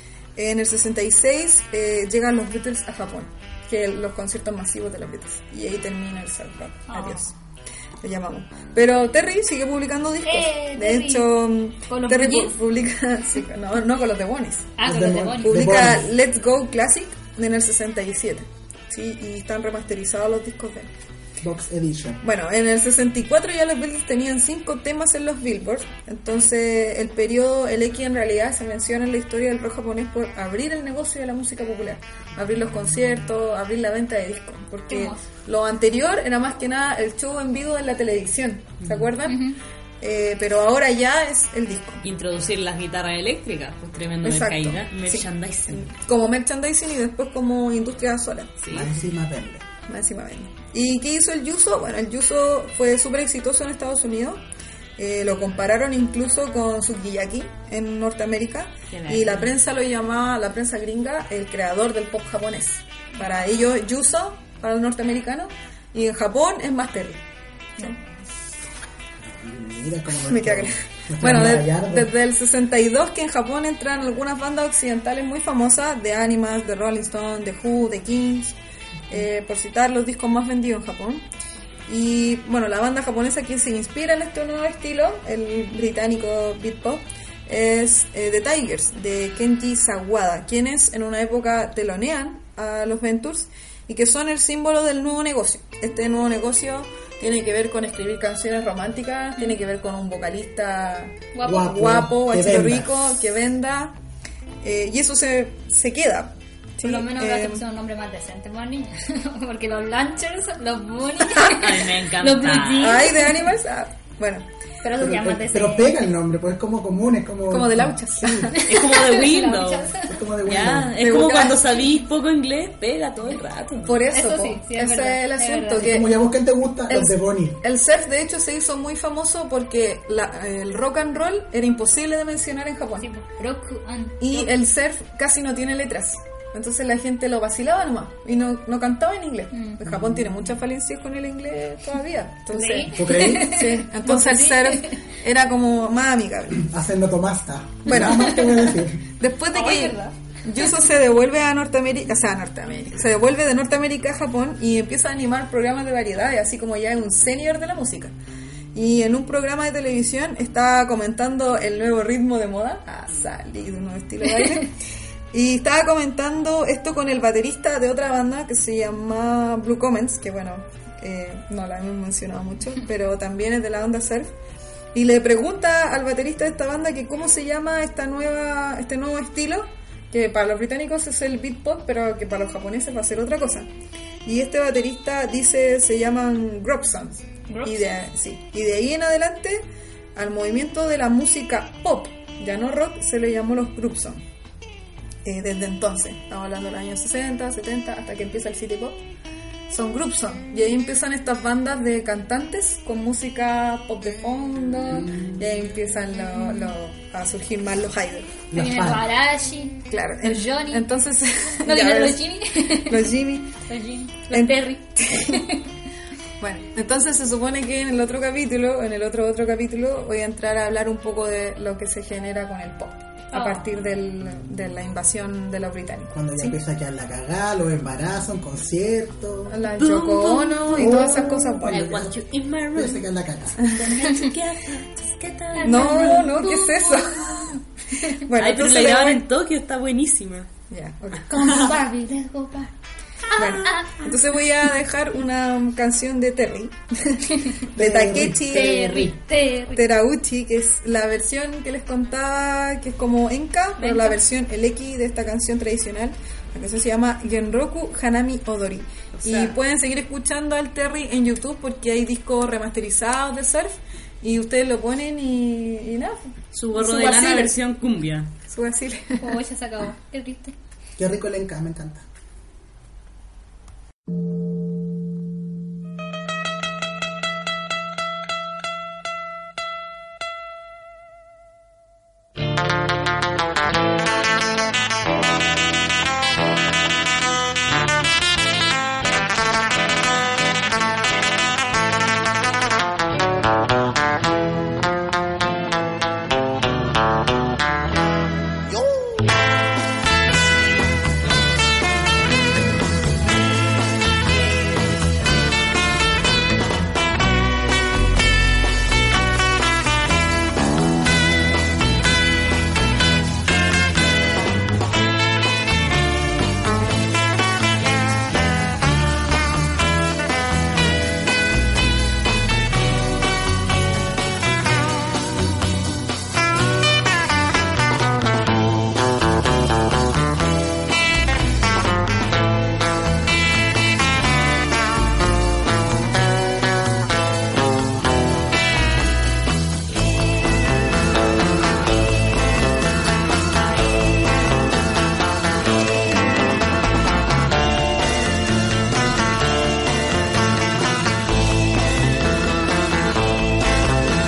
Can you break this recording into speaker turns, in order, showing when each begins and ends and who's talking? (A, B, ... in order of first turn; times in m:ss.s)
0:00.4-0:07.3 A
0:06.9-0:07.2 B
0:08.0-0:20.9 A
0:10.2-0:11.3 B
0:11.9-0:12.6 B
0:14.8-0:15.6 B
0:14.8-0:16.0 C
0:21.4-0:22.2 C
0:22.2-0:39.5 A
0:34.9-0:35.2 B
0:39.2-0:39.6 B
0:40.0-0:42.0 A
0:42.0-0:45.9 D
0:44.2-0:48.6 A
0:48.6-0:48.9 D
0:48.7-0:49.6 C
0:49.9-0:54.4 A
0:55.0-1:07.2 A
0:58.9-0:59.5 D
1:09.2-1:12.1 C
1:10.2-1:18.6 A
1:19.1-1:21.2 A
1:21.9-1:44.0 A
1:41.3-1:41.7 B
1:41.4-1:42.9 C
1:44.6-1:47.6 A
1:46.8-1:53.4 B
1:51.4-1:53.0 D
1:52.7-1:54.5 A
1:54.8-1:56.0 B
1:55.0-1:58.5 C
1:57.5-1:58.6 A
1:58.5-2:00.2 B
1:58.6-2:03.9 D
2:00.1-2:00.9 C
2:01.0-2:01.8 A
2:03.8-2:06.2 A
2:04.1-2:05.9 B
2:05.8-2:07.6 C
2:06.9-2:13.1 A
2:13.0-2:14.4 B
2:14.2-2:26.7 A
2:19.5-2:19.8 B
2:19.8-2:20.3 C
2:22.5-2:25.0 B
2:22.9-2:23.5 C
2:26.6-2:29.1 C
2:27.8-2:38.1 A
2:29.5-2:30.1 B
2:38.7-2:44.7 A
2:45.3-2:54.3 A
2:54.9-3:03.7 A
3:04.2-3:14.2 A
3:15.2-3:19.0 A
3:19.7-3:28.4 A
3:25.1-3:25.4 C
3:28.5-3:29.1 C
3:28.5-3:30.8 B
3:29.9-3:33.6 A
3:31.6-3:33.1 B
3:33.6-3:35.6 B
3:34.3-3:35.5 A
3:36.4-3:46.6 A
3:43.3-3:43.6 B
3:46.1-3:49.6 C
3:49.5-3:51.9 A
3:49.8-3:53.1 D
3:50.7-3:52.2 C
3:52.7-3:53.6 C
3:53.6-3:53.9 A
3:53.6-3:56.5 D
3:53.8-3:54.3 B
3:55.5-3:57.5 B
3:55.6-3:59.2 A
3:58.3-4:00.5 D
4:00.7-4:01.6 A
4:01.2-4:02.7 B
4:03.3-4:04.1 B
4:03.4-4:09.0 A
4:07.7-4:08.5 C
4:08.4-4:09.9 B
4:08.5-4:09.1 D
4:09.7-4:27.5 A
4:13.8-4:14.2 B
4:19.1-4:19.6 D
4:26.5-4:28.3 D
4:28.5-4:29.4 A
4:29.2-4:30.5 B
4:31.0-4:32.0 C